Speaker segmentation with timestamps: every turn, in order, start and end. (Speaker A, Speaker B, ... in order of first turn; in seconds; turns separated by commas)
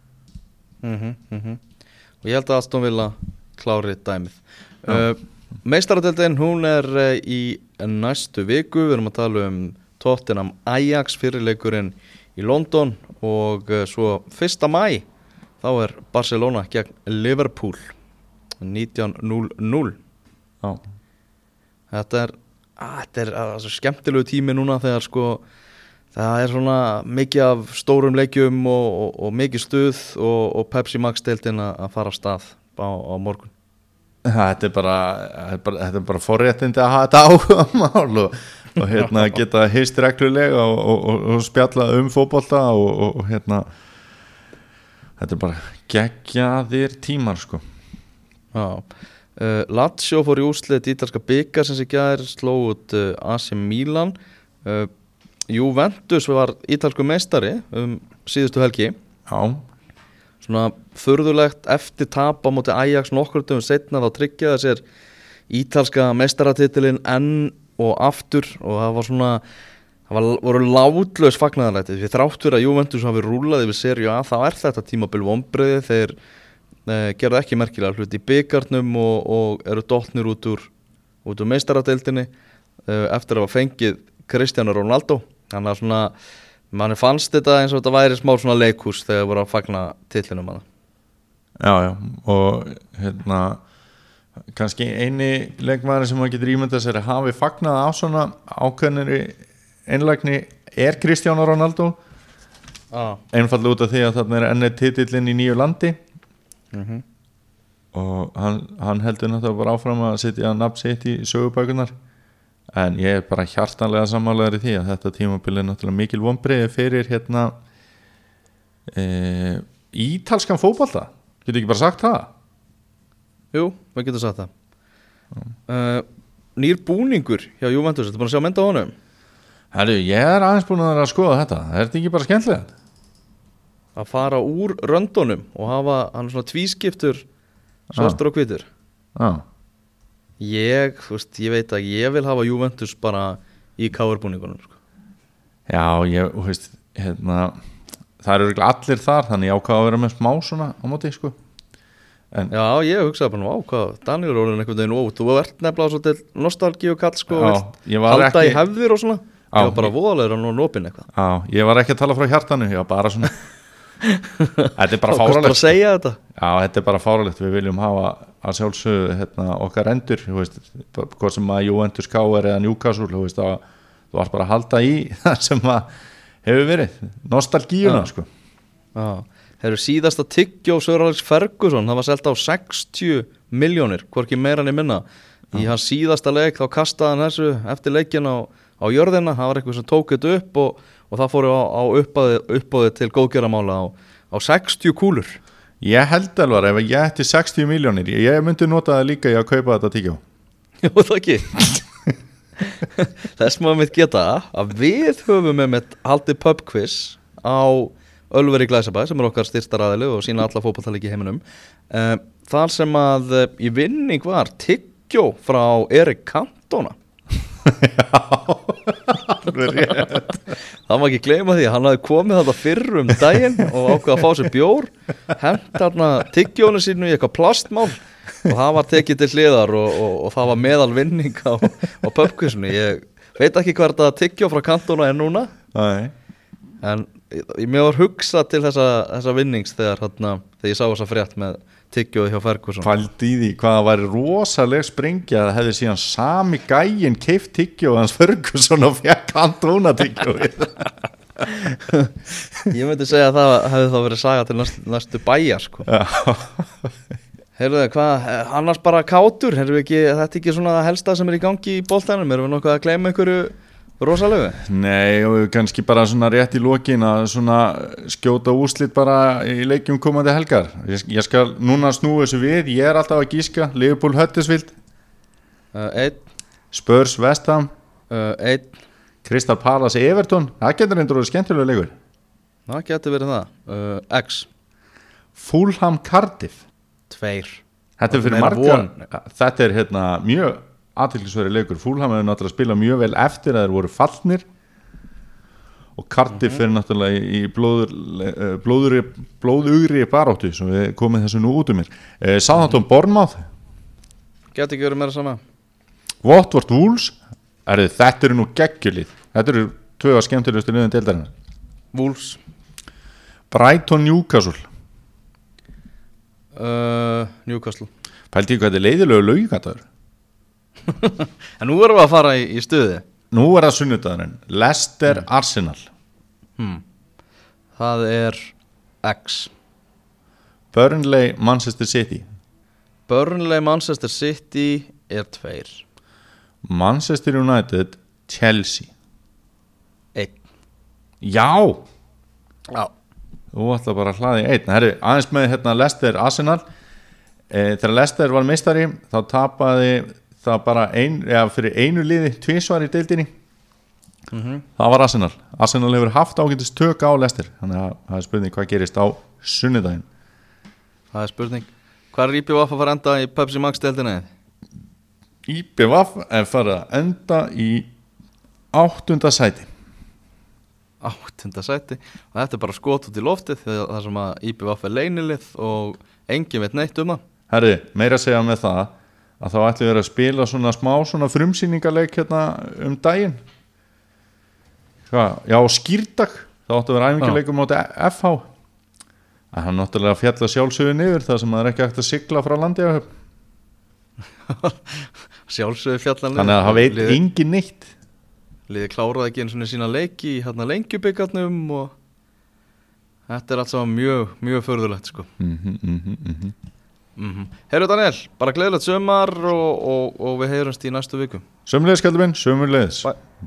Speaker A: 0.8-1.6, Speaker A: 2.2-15.1, Speaker A: 15.6-17.9, Speaker A: 18.6-20.0, Speaker A: 21.9-25.4, Speaker A: 26.1-33.5, Speaker B: 34.2-43.7, Speaker B: 45.2-47.6, Speaker A: 48.5-54.9, Speaker A: 55.5-59.0, Speaker B: 59.3-59.6, Speaker A: 60.4-64.8, Speaker A: 65.5-69.4, Speaker A: 70.1-76.2, Speaker A: 76.9-80.7, Speaker A: 81.2-82.3, Speaker A: 82.9-86.1, Speaker A: 86.7-90.6, Speaker B: 91.6-93.6, Speaker B: 94.5-102.0, Speaker A: 102.9-103.2, Speaker B: 103.3-106.0, Speaker A: 106.7-107.0, Speaker B: 107.9-111.9, Speaker B: 112.7-117.6, Speaker B: 118.9-122.3, Speaker A: 123.5-124.5, Speaker A: 125.7-128.9, Speaker B: 129.7-132.7, Speaker A: 134.0-137.2, Speaker A: 137.9-138.7, Speaker B: 137.9-138.2, Speaker B: 139.2-139.4, Speaker A: 140.4-144.8, Speaker B: 145.7-147.6, Speaker B: 148.2-151.4, Speaker A: 152.5-161.1, Speaker B: 157.3-158.6, Speaker B: 159.5-159.9, Speaker B: 161.1-163.4, Speaker A: 164.0-166.2, Speaker B: 164.8-165.8, Speaker B: 166.3-175.9, Speaker B: 176.4-178.3, Speaker A: 177.8-178.1, Speaker A: 178.9-195.4, Speaker B: 195.8-200.2, Speaker A: 200.8-201.8, Speaker A: 202.8-216.9, Speaker B: 217.7-220.4, Speaker A: 220.9-235.5, Speaker B: 235.7-236.1, Speaker A: 236.8-242.9, Speaker B: 242.8-251.7, Speaker A: 252.7-255.9, Speaker B: 255.9-256.9, Speaker A: 257.6-264.6, Speaker B: 264.6-274.8, Speaker A: 275.7-276.2, Speaker B: 276.7-277.7, Speaker A: 278.1-278.8, Speaker B: 279.2-281.9, Speaker A: 282.7-284.5, Speaker B: 285.4-286.6, Speaker A: 287.1-289.1, Speaker B: 288.0-294.5, Speaker B: 296.0-303.4, Speaker A: 296.3-296.6, Speaker A: 304.5-305.4, Speaker B: 306.2-311.3, Speaker A: 311.9-312.4, Speaker B: 313.5-314.7, Speaker A: 316.6-317.9, Speaker B: 318.3-319.8, Speaker A: 320.9-323.1, Speaker B: 323.3-325.9, Speaker A: 326.6-326.8, Speaker A: 327.8-329.5, Speaker B: 330.7-332.3, Speaker A: 333.1-335.8, Speaker B: 336.6-338.9, Speaker A: 340.1-340.4, Speaker B: 341.2-341.8, Speaker B: 343.5-346.6, Speaker B: 347.5-353.3, Speaker A: 354.3-354.6, Speaker B: 354.8-360.1, Speaker A: 361.1-364.3, Speaker B: 365.5-367.9, Speaker B: 368.7-369.7, Speaker A: 371.0-377.2, Speaker B: 377.5-383.4, Speaker B: 385.1-388.5, Speaker B: 389.5-393.1, Speaker A: 394.5-397.2, Speaker B: 396.4-397.9, Speaker A: 398.7-401.9, Speaker A: 403.3-405.3, Speaker B: 405.4-406.6, Speaker A: 407.2-411.4, Speaker B: 411.7-413.1